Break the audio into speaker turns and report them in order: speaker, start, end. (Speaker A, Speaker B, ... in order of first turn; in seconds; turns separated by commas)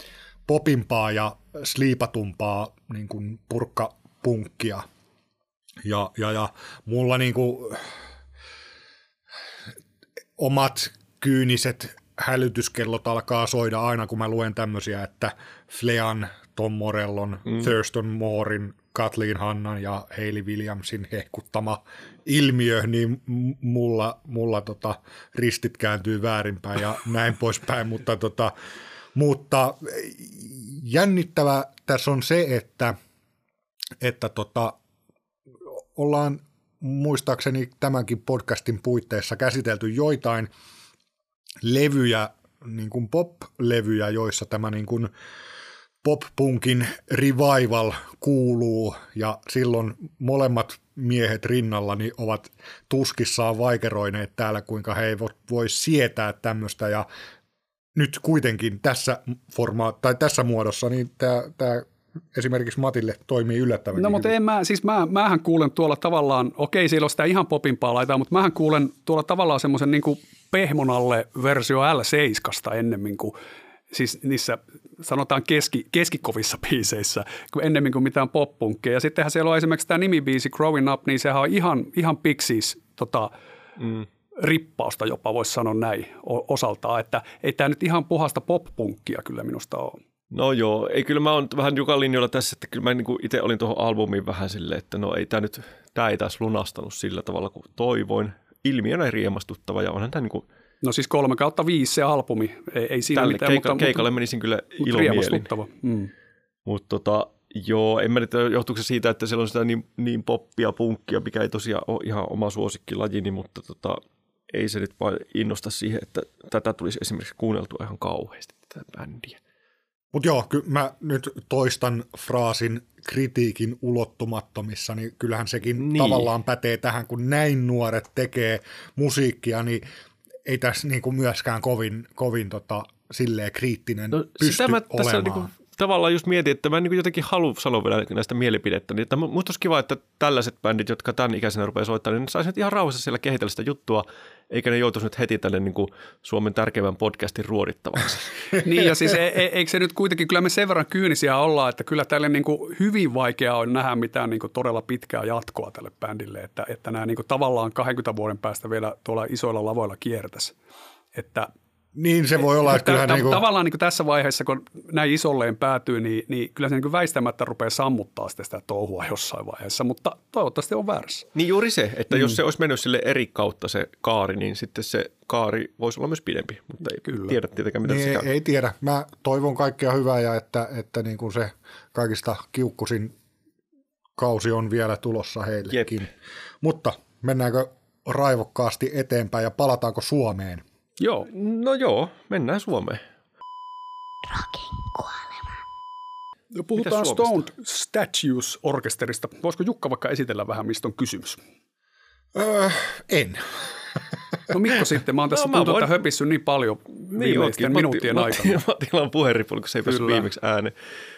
Speaker A: 0.5-4.8, Speaker A: 5.8-8.0, Speaker A: 10.4-28.5, Speaker A: 29.1-33.0, Speaker A: 34.0-34.8, Speaker A: 36.0-40.5, Speaker A: 41.6-45.1, Speaker A: 46.0-57.1, Speaker A: 58.0-64.3, Speaker B: 64.0-73.3, Speaker B: 73.9-83.3, Speaker C: 83.8-84.1, Speaker B: 84.4-90.0, Speaker C: 90.3-100.5, Speaker B: 100.8-104.1, Speaker C: 103.1-105.5, Speaker B: 104.8-106.1, Speaker C: 106.7-119.4, Speaker A: 120.1-129.8, Speaker C: 125.8-126.3, Speaker A: 130.5-135.5, Speaker C: 134.2-148.3, Speaker B: 148.6-160.6, Speaker B: 161.2-161.5, Speaker A: 161.9-163.5, Speaker B: 162.6-171.3, Speaker C: 171.3-178.3, Speaker B: 177.0-177.4, Speaker A: 177.8-183.1, Speaker A: 184.2-186.1, Speaker A: 186.6-190.6, Speaker B: 191.0-191.3, Speaker C: 191.3-193.0, Speaker B: 196.5-201.4, Speaker C: 196.8-197.4, Speaker A: 202.3-204.0, Speaker B: 204.5-208.6, Speaker C: 205.3-206.0, Speaker C: 207.2-210.8, Speaker B: 209.9-210.3